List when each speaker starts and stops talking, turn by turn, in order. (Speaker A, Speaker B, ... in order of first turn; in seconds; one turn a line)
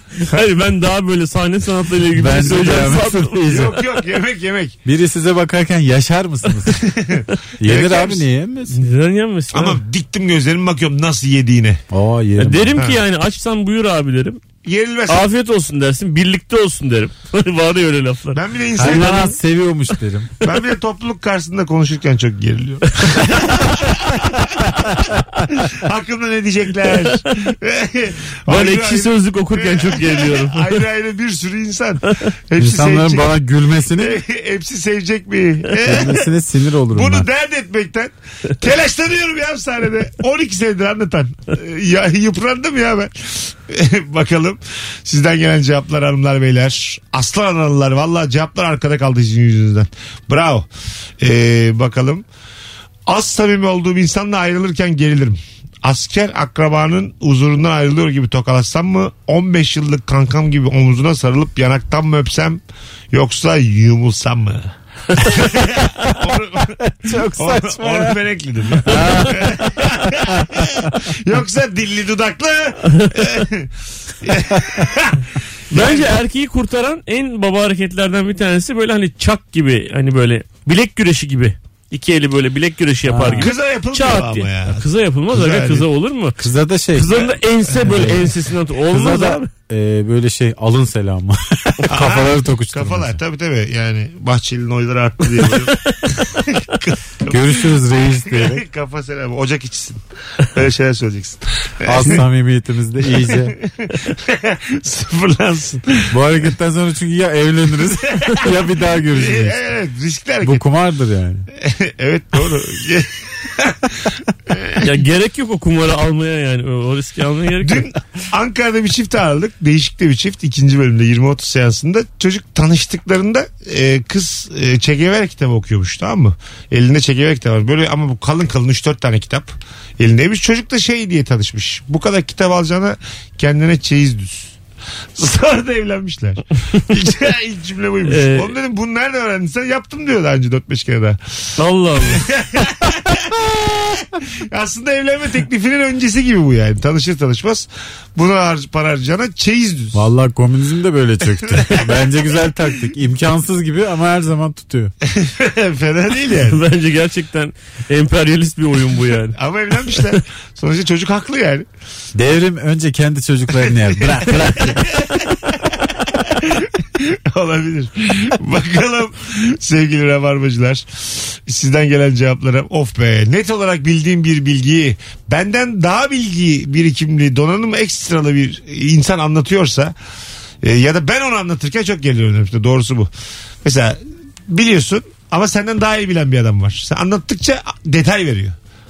Speaker A: 0.1-3.8
Speaker B: 2.1-3.8
Speaker C: 3.5-4.8
Speaker B: 4.8-6.8
Speaker C: 6.8-8.2
Speaker B: 7.6-8.8
Speaker A: 8.7-9.8
Speaker C: 9.5-11.8
Speaker B: 11.9-12.8
Speaker A: 12.4-14.4
Speaker C: 14.6-15.2
Speaker A: 15.1-19.4
Speaker C: 18.3-19.3
Speaker B: 18.8-20.3
Speaker C: 20.4-24.8
Speaker C: 25.6-33.4
Speaker A: 28.5-30.8
Speaker B: 32.6-34.2
Speaker C: 33.9-36.3
Speaker B: 35.8-37.3
Speaker C: 36.9-50.7
Speaker C: 51.2-52.2
Speaker C: 53.1-62.6
Speaker C: 63.1-73.7
Speaker B: 66.8-68.2
Speaker B: 68.8-70.9
Speaker A: 68.9-69.5
Speaker A: 73.0-73.3
Speaker C: 74.2-76.1
Speaker A: 75.7-86.4
Speaker B: 83.0-83.5
Speaker C: 83.4-85.8
Speaker B: 86.4-87.3
Speaker A: 86.9-89.5
Speaker C: 87.8-88.2
Speaker B: 87.8-88.3
Speaker B: 88.9-93.2
Speaker C: 91.9-97.7
Speaker B: 97.3-98.7
Speaker C: 98.3-102.2
Speaker B: 101.8-103.6
Speaker C: 103.2-106.2
Speaker B: 106.1-109.6
Speaker C: 108.1-108.5
Speaker C: 109.1-110.6
Speaker B: 110.4-111.5
Speaker C: 111.6-114.9
Speaker A: 114.8-117.9
Speaker C: 117.6-134.6
Speaker C: 135.2-141.2
Speaker A: 138.1-138.6
Speaker A: 141.6-142.2
Speaker C: 142.0-150.0
Speaker B: 149.9-154.9
Speaker C: 151.5-151.9
Speaker C: 155.1-156.6
Speaker A: 156.3-160.2
Speaker C: 159.3-161.7
Speaker B: 162.2-165.0
Speaker C: 164.0-165.3
Speaker C: 165.9-179.9
Speaker C: 180.6-183.1
Speaker C: 183.6-188.6